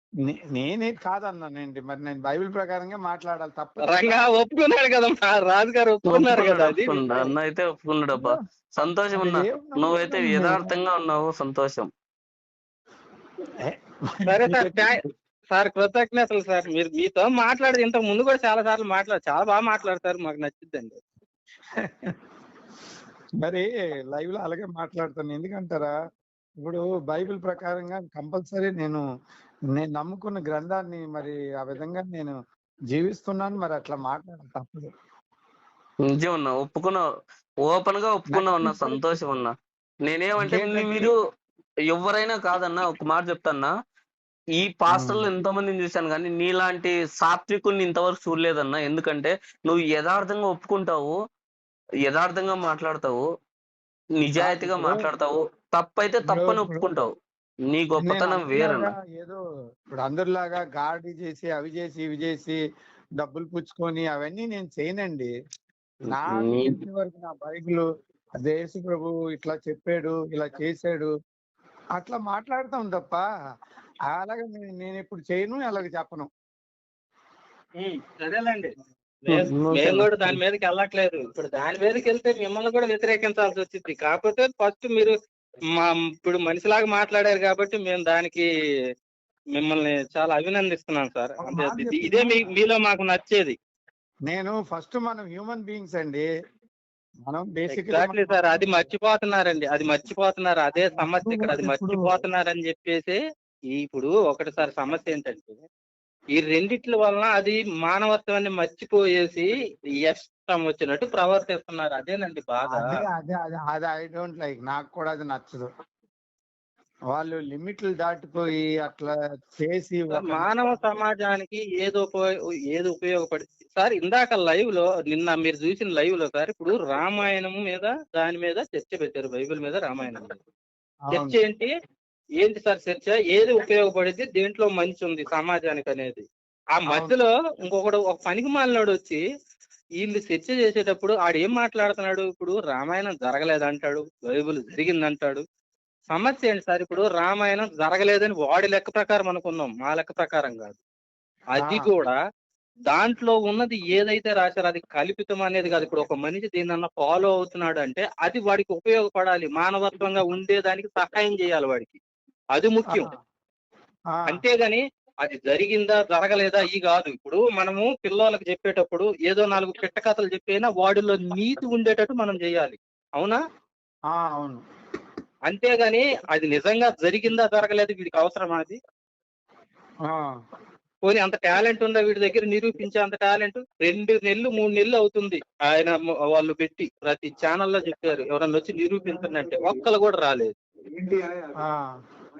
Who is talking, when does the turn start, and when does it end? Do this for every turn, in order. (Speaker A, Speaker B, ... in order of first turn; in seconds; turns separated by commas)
Speaker A: 0.2-4.2, Speaker B: 3.9-7.0, Speaker C: 6.1-11.9, Speaker A: 9.1-10.7, Speaker A: 13.7-14.8, Speaker B: 14.3-15.0, Speaker B: 15.5-21.0, Speaker A: 21.8-22.1, Speaker A: 23.4-25.9, Speaker A: 26.6-29.0, Speaker A: 29.8-32.4, Speaker A: 32.9-34.9, Speaker C: 36.0-37.0, Speaker C: 37.6-39.5, Speaker A: 38.3-38.9, Speaker C: 40.1-41.2, Speaker A: 40.4-41.1, Speaker C: 41.9-43.7, Speaker C: 44.6-51.2, Speaker A: 44.9-45.2, Speaker C: 52.1-53.2, Speaker C: 54.2-57.1, Speaker A: 54.4-55.1, Speaker A: 56.3-56.9, Speaker C: 57.7-58.9, Speaker A: 58.0-59.4, Speaker A: 59.9-62.6, Speaker A: 63.2-65.3, Speaker C: 66.0-66.8, Speaker A: 66.1-67.9, Speaker A: 68.4-71.1, Speaker A: 72.0-73.2, Speaker A: 74.1-76.3, Speaker B: 77.8-78.7, Speaker B: 79.3-85.2, Speaker C: 79.3-80.4, Speaker B: 85.8-88.5, Speaker B: 89.6-93.5, Speaker A: 91.4-92.5, Speaker A: 94.3-96.2, Speaker A: 97.3-98.6, Speaker B: 97.7-103.2, Speaker A: 100.9-102.0, Speaker B: 103.7-105.7, Speaker B: 106.4-109.5, Speaker B: 110.1-113.0, Speaker A: 112.7-115.7, Speaker A: 117.1-120.5, Speaker B: 120.1-130.3, Speaker A: 131.1-131.4, Speaker B: 131.2-131.7, Speaker B: 132.4-136.2, Speaker B: 136.8-139.2, Speaker A: 136.9-137.2, Speaker B: 140.0-145.4, Speaker B: 146.1-150.8, Speaker B: 151.6-152.2, Speaker A: 151.6-151.9, Speaker B: 152.9-162.0, Speaker B: 162.6-163.1, Speaker A: 162.9-163.1, Speaker A: 164.1-164.4, Speaker B: 164.3-173.4, Speaker A: 174.1-174.6, Speaker B: 175.5-178.8, Speaker B: 181.0-190.5, Speaker A: 191.6-191.9